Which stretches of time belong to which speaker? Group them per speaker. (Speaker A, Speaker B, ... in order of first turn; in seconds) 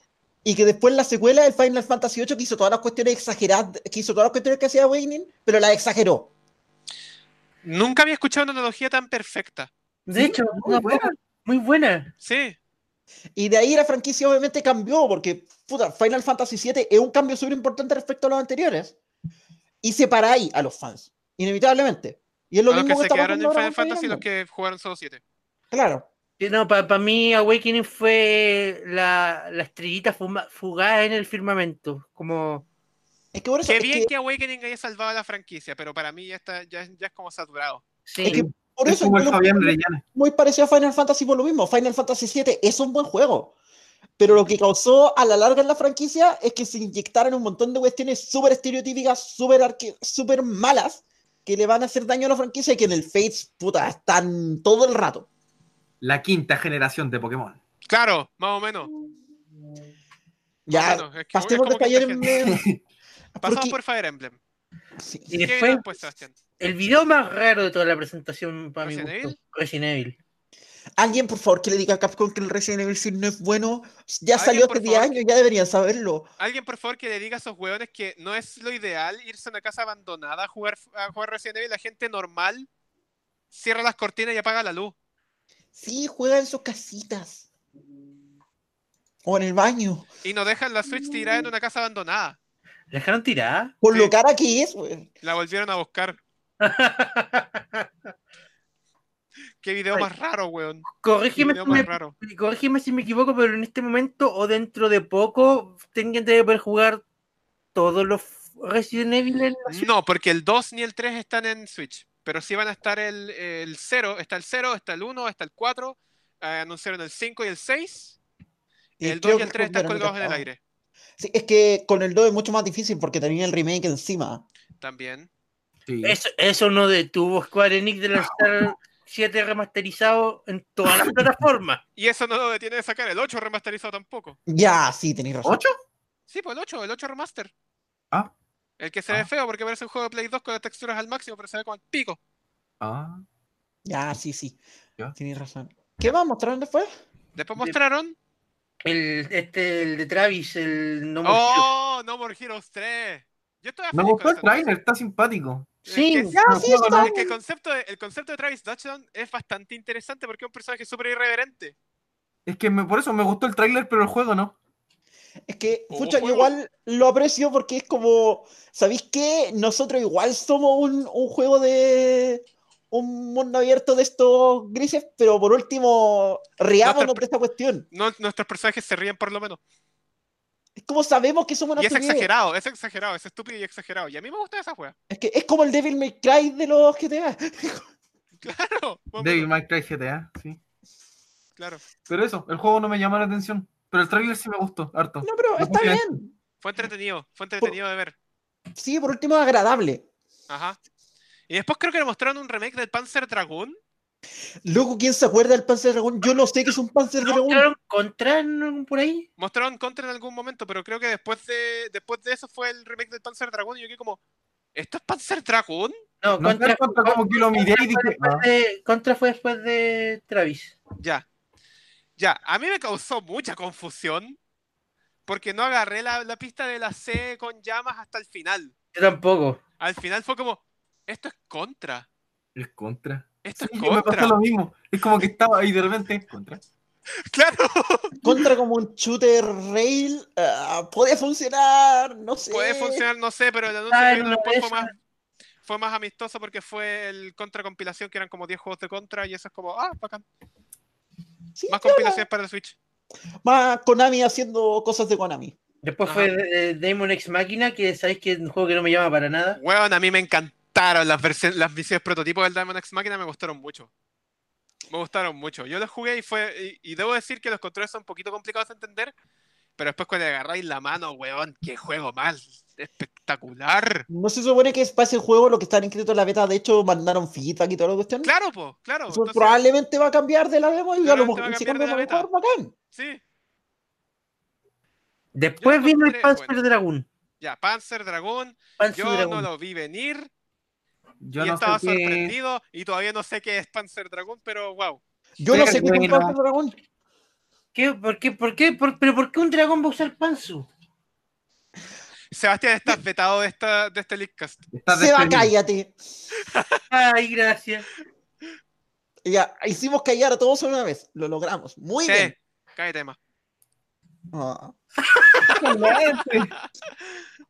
Speaker A: 0.4-6.3, 13.4-18.9, 19.8-24.2, 25.7-26.1, 33.3-34.1, 38.2-43.5, 44.2-55.3, 60.7-62.6, 63.4-63.8, 65.0-65.3, 71.0-76.3, 85.8-87.5, 89.2-90.1, 93.8-95.1, 119.0-120.5, 121.2-124.4, 134.5-135.6, 143.9-144.6, 145.2-146.9, 156.3-157.4, 165.5-177.9, 180.8-182.3, 185.1-187.9, 195.2-196.3, 198.8-200.0, 204.6-207.7, 238.2-243.1, 251.6-252.3, 253.4-255.6, 274.1-278.3, 279.1-282.7, 295.4-296.8, 304.9-306.0, 309.2-312.3, 314.3-314.8
Speaker B: 7.6-9.7, 12.2-12.6, 22.7-25.2, 33.6-37.8, 57.9-58.9, 60.7-62.4, 63.4-64.4, 65.4-66.3, 68.8-69.4, 74.3-75.2, 76.4-82.7, 83.5-85.0, 90.2-92.4, 95.2-96.2, 99.6-102.2, 109.7-118.2, 119.0-120.6, 124.8-125.3, 132.0-134.4, 136.3-137.5, 138.8-142.2, 147.4-148.2, 151.2-154.7, 155.9-161.8, 165.9-166.5, 176.8-177.2, 177.9-179.6, 181.8-184.9, 188.4-189.5, 191.6-191.8, 196.6-198.2, 200.5-200.8, 201.5-203.8, 209.4-214.2, 214.8-216.0, 221.0-221.2, 222.2-224.4, 225.3-228.7, 229.8-232.1, 233.4-234.4, 237.3-238.1, 242.5-244.9, 245.6-250.2, 251.7-252.8, 259.6-263.9, 264.9-269.1, 269.8-274.1, 278.2-279.6, 281.0-282.3, 282.9-283.2, 285.6-286.5, 287.4-290.3, 291.4-295.0, 302.3-304.6, 306.5-306.8, 312.1-313.2, 315.4-316.0
Speaker C: 10.1-12.1, 26.4-32.7, 38.1-38.5, 65.3-65.8, 66.6-70.2, 92.9-93.7, 96.6-97.9, 101.0-107.0, 107.8-109.9, 126.0-131.8, 148.8-151.7, 155.9-156.4, 207.2-209.3, 216.2-220.8, 228.9-229.6, 243.9-244.9, 255.8-259.6, 285.4-287.1, 288.8-289.5, 297.7-300.7, 306.9-307.9
Speaker D: 10.2-11.1, 38.2-40.0, 56.0-57.6, 62.3-62.8, 125.9-126.2, 128.2-128.7, 135.4-135.7, 142.8-143.2, 153.9-155.7, 156.4-157.1, 162.5-164.6, 189.2-190.6, 192.1-196.1, 216.4-218.4, 232.6-236.6, 291.2-292.4, 295.5-296.4, 304.7-305.5, 315.4-316.5